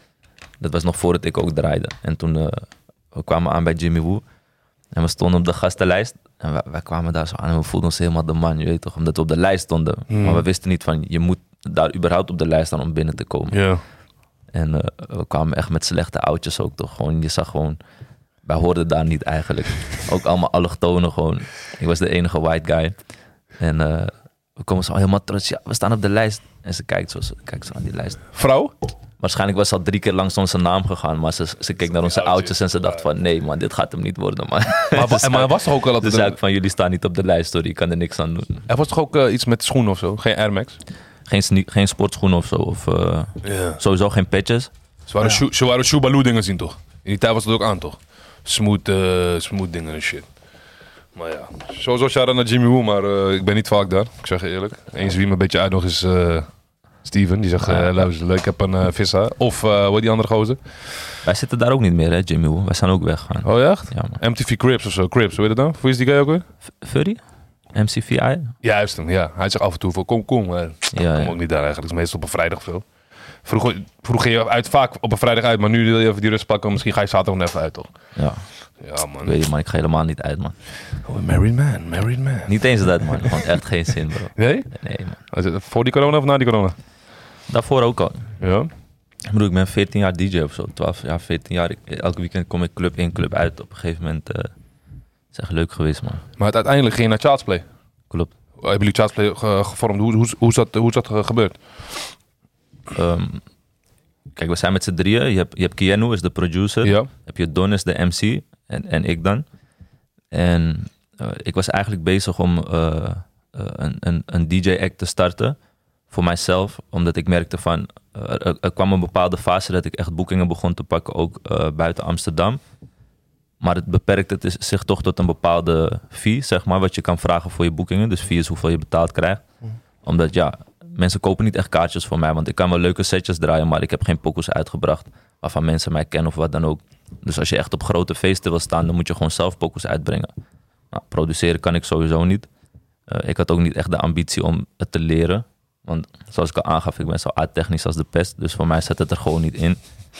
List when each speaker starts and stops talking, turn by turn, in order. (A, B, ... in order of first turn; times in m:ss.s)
0:00.6-0:04.2 A
0:04.9-0:13.7 A
0:10.1-0:10.4 B
0:13.5-0:13.8 B
0:14.5-0:17.8 A
0:18.4-0:23.0 A
0:23.6-0:28.3 A
0:28.3-0:28.7 B
0:29.2-0:38.6 A
0:32.0-0:33.0 B
0:34.9-0:36.4 B
0:38.7-0:40.8 B
0:41.3-0:44.7 A
0:43.4-0:43.8 B
0:45.1-0:50.3 B
0:51.1-0:56.5 B
0:57.0-1:00.9 B
0:57.6-0:58.0 A
1:01.2-1:04.2 A
1:03.4-1:06.4 B
1:06.8-1:07.2 A
1:07.7-1:08.5 A
1:08.6-1:12.8 B
1:10.9-1:11.4 A
1:13.4-1:17.9 B
1:18.2-1:18.4 A
1:18.8-1:19.3 B
1:19.2-1:20.6 A
1:21.0-1:23.4 B
1:22.5-1:25.2 A
1:24.4-1:26.7 B
1:27.5-1:28.3 A
1:28.4-1:28.7 B
1:29.3-1:34.5 A
1:35.3-1:36.2 A
1:36.4-1:37.6 B
1:38.6-1:42.1 B
1:42.9-1:43.4 A
1:44.4-1:49.4 A
1:46.8-1:47.1 B
1:50.3-1:55.6 A
1:56.1-2:02.6 A
2:03.6-2:09.4 A
2:10.0-2:20.3 A
2:20.9-2:22.5 A
2:23.1-2:29.8 A